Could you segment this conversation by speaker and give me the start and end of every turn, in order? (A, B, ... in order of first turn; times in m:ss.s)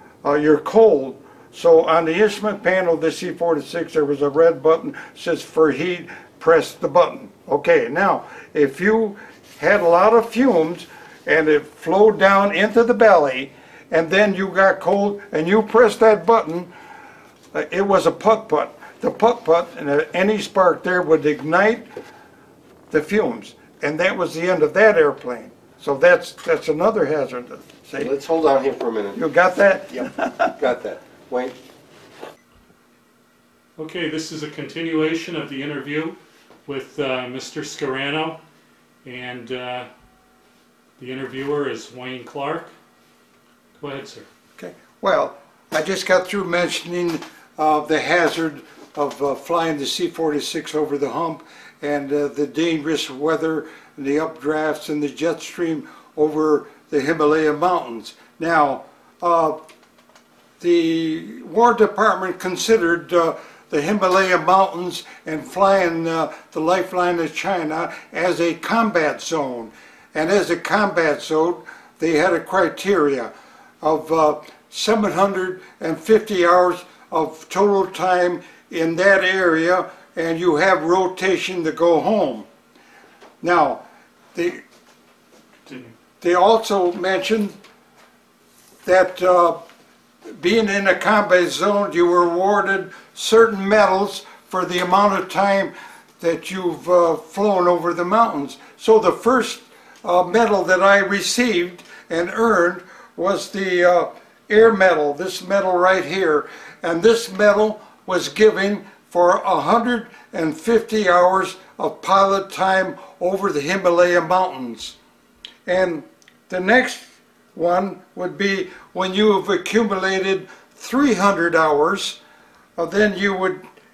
0:00.2-0:16.7 A
0:17.5-0:21.8 A
0:22.9-0:28.1 A
0:28.0-0:29.2 B
0:29.2-0:30.5 A
0:29.9-0:31.5 B
0:33.8-0:38.4 C
0:39.0-0:39.9 C
0:41.0-0:42.7 C
0:43.8-0:44.3 C
0:44.6-0:59.6 A
1:00.6-1:13.3 A
1:13.8-1:22.4 A
1:23.4-1:23.8 A
1:24.3-1:24.6 A
1:25.7-1:25.9 C
1:26.2-1:27.5 A
1:28.8-1:29.6 A
1:30.4-1:55.0 A
1:55.6-2:02.2 A
2:02.8-2:03.6 A